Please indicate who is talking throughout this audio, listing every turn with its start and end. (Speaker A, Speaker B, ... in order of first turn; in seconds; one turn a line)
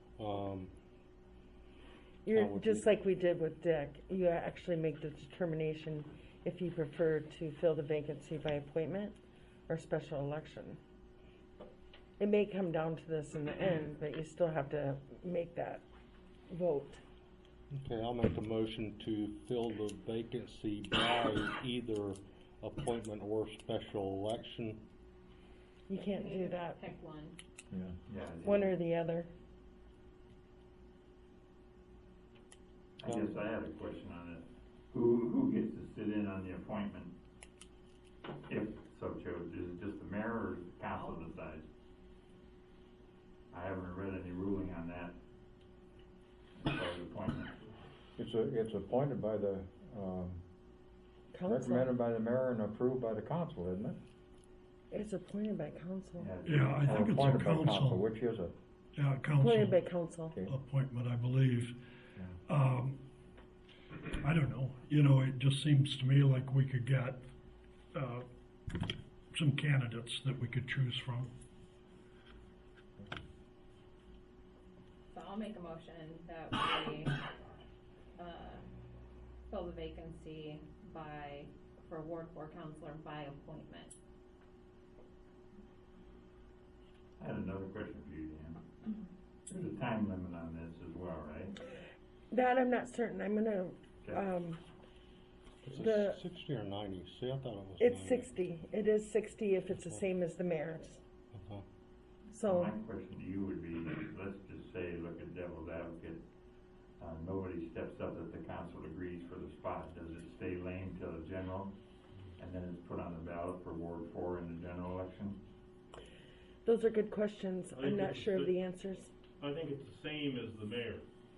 Speaker A: 0.2-0.7
Speaker B: 2.2-9.2
Speaker A: 2.3-2.9
Speaker B: 9.7-10.8
Speaker B: 12.2-15.8
Speaker B: 16.5-17.0
Speaker A: 17.7-24.8
Speaker B: 25.9-26.8
Speaker C: 26.1-27.4
Speaker D: 27.7-28.0
Speaker E: 28.1-28.8
Speaker B: 28.4-29.3
Speaker E: 33.0-37.1
Speaker E: 38.5-41.7
Speaker C: 40.9-41.2
Speaker E: 43.5-45.1
Speaker E: 46.6-47.5
Speaker D: 48.2-50.4
Speaker B: 51.3-51.9
Speaker D: 51.5-54.0
Speaker B: 54.9-56.3
Speaker E: 56.2-57.1
Speaker F: 56.5-58.0
Speaker D: 56.9-58.5
Speaker F: 59.0-59.8
Speaker B: 59.4-60.4
Speaker F: 60.5-61.7
Speaker F: 62.5-63.0
Speaker F: 64.2-67.2
Speaker F: 67.9-68.3
Speaker F: 69.3-71.3
Speaker C: 75.1-77.1
Speaker C: 78.2-78.6
Speaker C: 79.5-83.9
Speaker E: 87.2-88.6
Speaker E: 89.5-91.5
Speaker B: 92.3-94.6
Speaker A: 95.7-98.3
Speaker B: 95.7-96.2
Speaker B: 97.8-101.0
Speaker A: 99.7-100.0
Speaker A: 101.3-101.7
Speaker B: 102.3-102.7
Speaker E: 102.5-106.2
Speaker E: 107.0-111.7
Speaker E: 112.4-115.4
Speaker B: 116.7-119.1
Speaker G: 117.8-118.5
Speaker G: 119.6-120.9